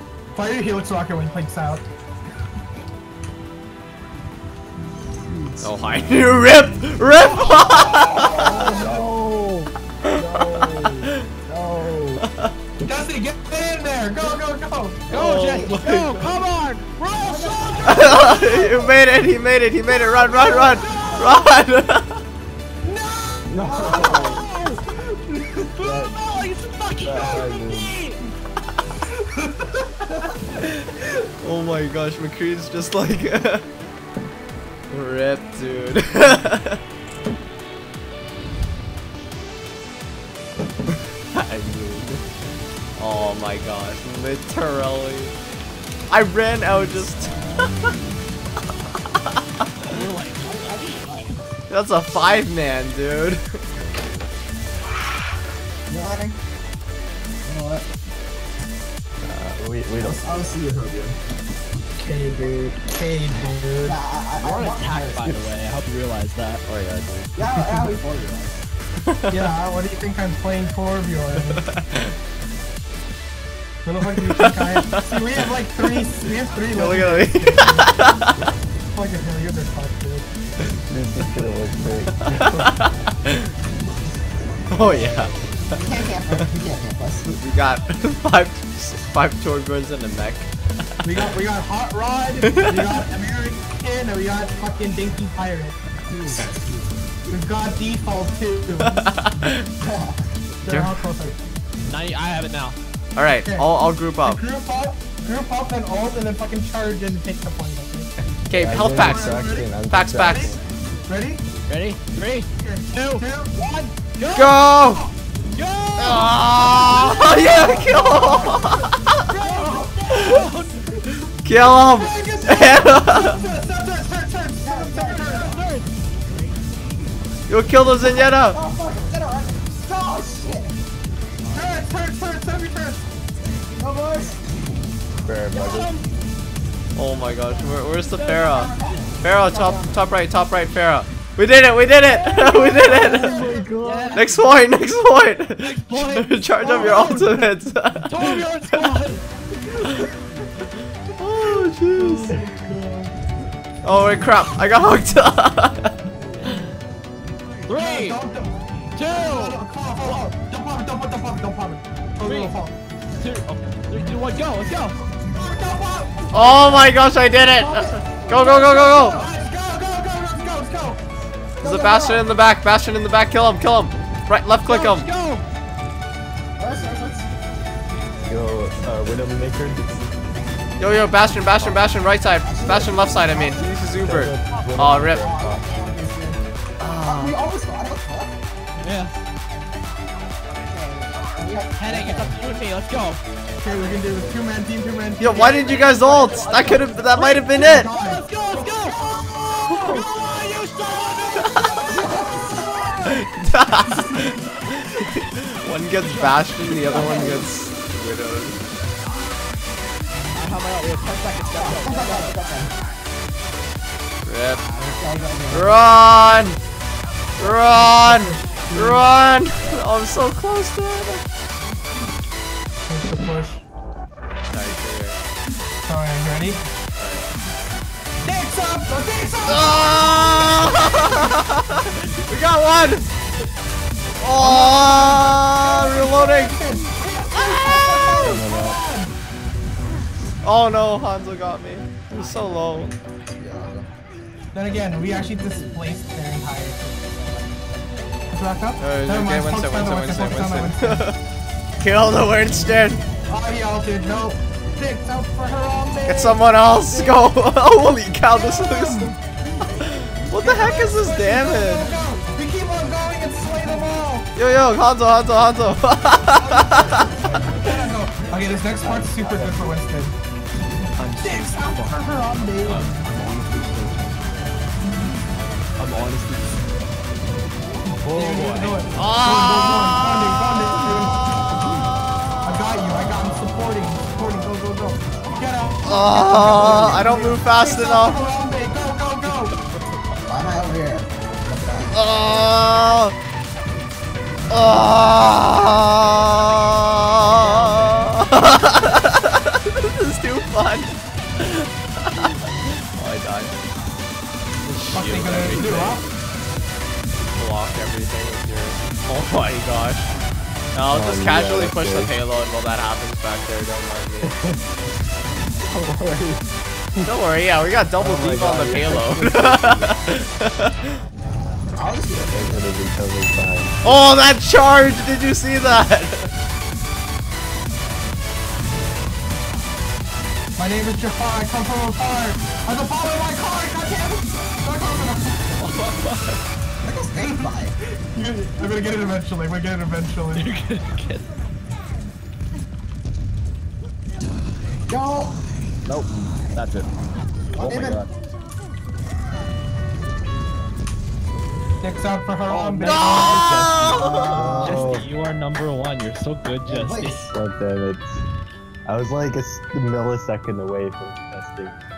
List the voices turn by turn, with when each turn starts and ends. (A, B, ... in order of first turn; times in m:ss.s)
0:00.3-0:01.8 A
0:05.6-0:08.4 B
0:07.1-0:08.7 A
0:07.8-0:09.1 C
0:08.2-0:12.2 D
0:10.1-0:10.6 B
0:12.2-0:12.5 B
0:12.8-0:18.7 A
0:15.1-0:15.8 C
0:15.1-0:16.4 B
0:15.7-0:17.8 E
0:17.2-0:18.8 C
0:17.8-0:22.2 B
0:20.4-0:21.4 C
0:20.4-0:21.3 A
0:22.8-0:26.0 A
0:23.5-0:24.3 D
0:23.6-0:24.4 C
0:24.0-0:24.8 E
0:25.8-0:26.2 D
0:26.0-0:28.2 E
0:27.0-0:28.0 D
0:29.2-0:29.8 A
0:30.6-0:33.6 B
0:34.9-0:36.8 B
0:41.3-0:42.2 B
0:43.0-0:45.3 B
0:46.1-0:47.7 B
0:49.9-0:51.4 C
0:49.9-0:50.5 E
0:51.7-0:53.4 B
0:55.9-0:56.4 C
0:57.4-0:57.8 C
0:59.2-1:00.4 D
1:00.0-1:01.2 C
1:02.0-1:04.0 A
1:03.8-1:05.4 C
1:04.4-1:06.6 E
1:06.6-1:07.3 B
1:07.3-1:08.6 C
1:07.5-1:08.0 A
1:09.1-1:09.4 B
1:09.3-1:11.6 A
1:11.5-1:12.1 B
1:13.8-1:17.9 A
1:14.1-1:15.5 B
1:16.6-1:18.4 B
1:18.9-1:20.3 A
1:20.9-1:22.7 D
1:22.2-1:23.5 B
1:24.7-1:25.4 B
1:24.8-1:25.2 C
1:25.7-1:27.3 C
1:27.3-1:30.5 B
1:31.0-1:35.8 A
1:32.6-1:32.8 B
1:37.3-1:39.0 A
1:38.9-1:39.6 B
1:39.8-1:40.2 C
1:40.6-1:41.4 A
1:40.6-1:41.0 B
1:41.9-1:42.8 E
1:43.2-1:44.4 B
1:43.4-1:48.1 A
1:48.5-1:49.4 B
1:48.5-1:50.6 D
1:48.8-1:49.7 A
1:49.9-1:50.6 B
1:50.2-1:51.4 A
1:51.7-1:54.6 E
1:52.6-1:53.6 A
1:54.3-1:55.1 B
1:55.5-1:57.8 E
1:56.0-1:59.1 B
1:57.3-1:58.6 C
1:59.2-2:00.0 A
1:59.4-2:00.9 E
2:00.1-2:00.4 B
2:01.1-2:03.4 B
2:01.9-2:05.5 A
2:04.6-2:05.6 C
2:05.4-2:05.9 E
2:07.5-2:08.6 B
2:08.4-2:10.8 C
2:11.5-2:13.0 A
2:13.7-2:14.4 C
2:15.2-2:15.9 D
2:15.5-2:16.0 E
2:16.9-2:23.4 B
2:18.0-2:19.0 E
2:18.4-2:20.1 C
2:22.1-2:24.2 D
2:22.8-2:23.7 A
2:23.8-2:24.3 E
2:24.1-2:29.0 B
2:25.6-2:27.4 E
2:26.7-2:27.2 A
2:28.0-2:29.2 E
2:31.2-2:32.4 B
2:32.3-2:32.6 D
2:33.8-2:35.9 B
2:37.7-2:38.2 E
2:37.7-2:38.5 A
2:38.9-2:40.3 E
2:39.1-2:42.7 A
2:42.2-2:42.5 E
2:43.2-2:45.0 E
2:45.2-2:46.8 A
2:46.3-2:49.2 B
2:47.5-2:49.3 C
2:48.7-2:51.0 A
2:51.6-2:52.3 C
2:51.6-2:55.1 B
2:54.6-2:55.4 E
2:56.6-2:57.3 C
2:58.2-2:59.8 D
3:00.8-3:05.2 B
3:01.6-3:01.9 C
3:02.4-3:03.7 C
3:04.0-3:05.7 D
3:05.2-3:06.4 C
3:06.8-3:07.4 B
3:07.0-3:08.3 C
3:08.8-3:09.1 E
3:10.6-3:12.4 C
3:11.8-3:13.2 E
3:13.6-3:16.1 A
3:15.2-3:17.9 B
3:15.6-3:19.0 E
3:17.5-3:19.0 A
3:19.6-3:23.2 E
3:21.4-3:21.8 B
3:21.9-3:22.5 C
3:23.0-3:28.6 B
3:26.0-3:27.3 E
3:26.9-3:27.5 C
3:30.3-3:32.4 E
3:31.5-3:32.7 C
3:34.2-3:34.7 B
3:34.8-3:35.8 C
3:35.5-3:36.6 B
3:37.4-3:41.2 B
3:37.4-3:39.1 A
3:42.8-3:43.6 A
3:44.5-3:45.2 B
3:45.8-3:46.6 A
3:47.0-3:47.2 B
3:48.2-3:50.1 A
3:49.4-3:53.1 B
3:54.2-3:56.6 B
3:54.3-3:59.1 A
3:57.3-3:58.1 B
3:58.1-3:58.8 D
4:00.4-4:02.9 B
4:03.2-4:03.9 C
4:04.5-4:07.6 A
4:08.3-4:11.0 A
4:08.8-4:11.2 B
4:11.8-4:13.0 B
4:13.3-4:16.4 A
4:16.1-4:19.1 B
4:18.3-4:19.1 A
4:20.2-4:22.0 B
4:20.3-4:24.3 A
4:24.3-4:27.1 B
4:26.3-4:30.1 A
4:28.8-4:29.4 C
4:28.8-4:29.4 D
4:31.0-4:32.0 E
4:31.2-4:33.1 A
4:32.6-4:34.2 E
4:35.8-4:36.7 E
4:38.0-4:41.2 A
4:38.1-4:38.5 D
4:38.2-4:38.8 E
4:38.9-4:40.7 B
4:42.4-4:49.5 A
4:45.8-4:48.2 B
4:50.2-4:52.0 C
4:51.9-4:53.1 B
4:54.5-5:02.3 B
4:57.3-4:58.0 A
5:02.9-5:03.6 B
5:04.6-5:06.1 B
5:04.9-5:06.0 A
5:07.3-5:10.1 B
5:10.7-5:14.3 B
5:10.9-5:12.1 D
5:14.2-5:14.6 D
5:15.6-5:16.4 D
5:17.0-5:20.7 B
5:18.0-5:20.0 D
5:21.8-5:22.7 C
5:22.3-5:23.8 D
5:23.8-5:26.3 B
5:30.6-5:35.5 A
5:35.5-5:36.4 E
5:36.8-5:37.8 C
5:37.2-5:40.5 A
5:40.4-5:41.3 E
5:44.9-5:45.4 C
5:45.9-5:46.9 E
5:47.5-5:48.1 C
5:47.6-5:48.1 D
5:51.8-5:53.6 A
5:52.5-5:57.3 E
5:52.8-5:54.4 B
5:53.9-5:55.0 C
5:54.3-5:55.1 D
5:56.6-5:57.3 C
5:57.3-5:58.2 D
5:58.8-6:01.8 D